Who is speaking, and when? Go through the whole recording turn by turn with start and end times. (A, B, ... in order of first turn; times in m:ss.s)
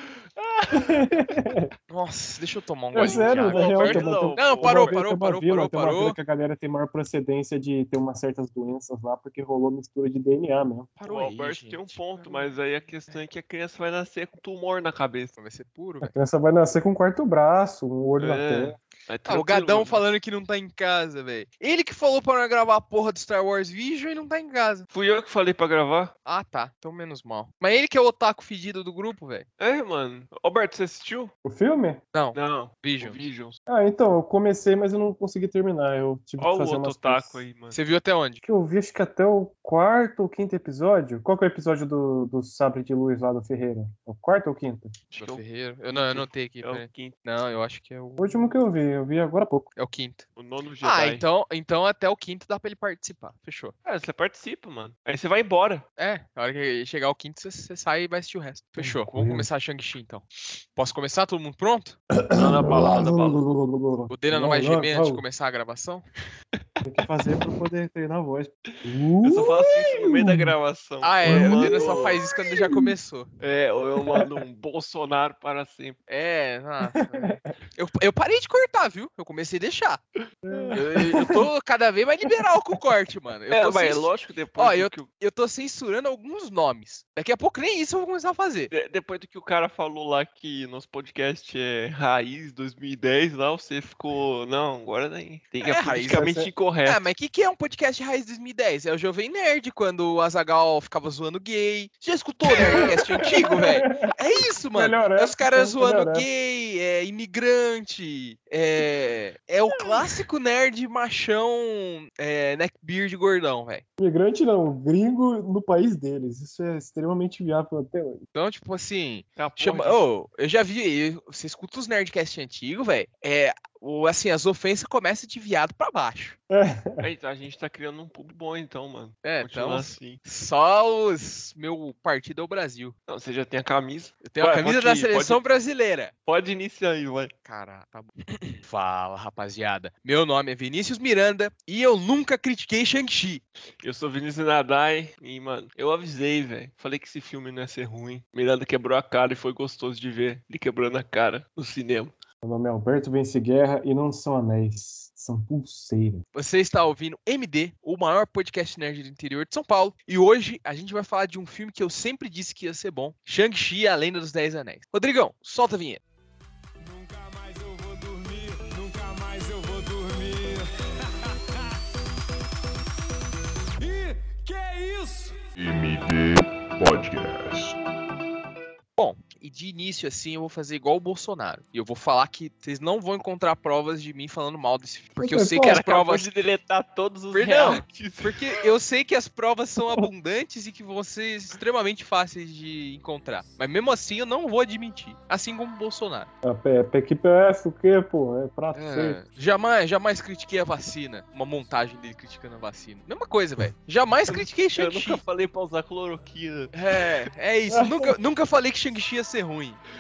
0:00.4-0:01.2 A
0:00.7-0:01.7 B
0:01.9-0:06.2 C
0:02.9-0:10.9 B
0:03.0-0:05.0 A
0:11.0-0:12.6 C
0:11.0-0:15.3 A
0:15.3-0:16.1 C
0:16.0-0:18.8 B
0:18.2-0:20.0 A
0:19.3-0:24.9 C
0:24.9-0:26.1 A
0:26.3-0:29.5 C
0:29.6-0:31.3 A
0:31.4-0:32.0 B
0:32.1-0:33.2 C
0:32.3-0:33.6 A
0:33.7-0:37.4 B
0:36.4-0:37.8 A
0:37.7-0:38.4 C
0:38.4-0:45.0 B
0:45.1-0:45.4 A
0:45.2-0:48.4 C
0:46.0-0:47.2 A
0:48.2-0:49.7 B
0:49.8-0:50.3 C
0:50.4-0:51.2 A
0:50.8-0:53.7 C
0:53.9-0:55.8 A
0:56.0-1:02.0 C
0:58.8-0:59.5 B
1:02.1-1:05.2 B
1:02.3-1:03.4 A
1:04.1-1:06.1 C
1:06.8-1:10.5 B
1:08.7-1:12.2 A
1:11.0-1:13.3 C
1:11.2-1:12.9 B
1:13.4-1:16.0 A
1:16.1-1:20.0 C
1:16.8-1:17.5 B
1:20.5-1:21.4 B
1:20.5-1:20.8 A
1:20.8-1:28.7 C
1:23.5-1:25.1 A
1:28.7-1:37.0 A
1:35.6-1:36.3 C
1:36.1-1:36.5 B
1:36.8-1:53.8 C
1:42.6-1:43.8 A
1:42.7-1:44.1 B
1:44.7-1:46.3 B
1:54.0-1:58.2 B
1:58.4-2:06.4 C
1:59.4-2:00.0 A
2:06.5-2:07.1 B
2:07.0-2:10.2 A
2:09.2-2:13.0 C
2:13.1-2:15.4 A
2:14.2-2:16.1 C
2:16.3-2:17.3 A
2:17.5-2:23.4 C
2:23.8-2:32.1 A
2:32.4-2:36.2 B
2:36.4-2:46.0 C
2:46.8-2:50.7 D
2:53.8-2:55.3 D
2:55.6-2:57.8 E
2:59.0-3:06.3 C
3:05.2-3:05.9 B
3:05.6-3:08.6 A
3:07.3-3:16.3 C
3:16.4-3:19.2 B
3:18.7-3:25.2 C
3:24.3-3:26.7 A
3:26.7-3:29.8 C
3:27.7-3:28.1 B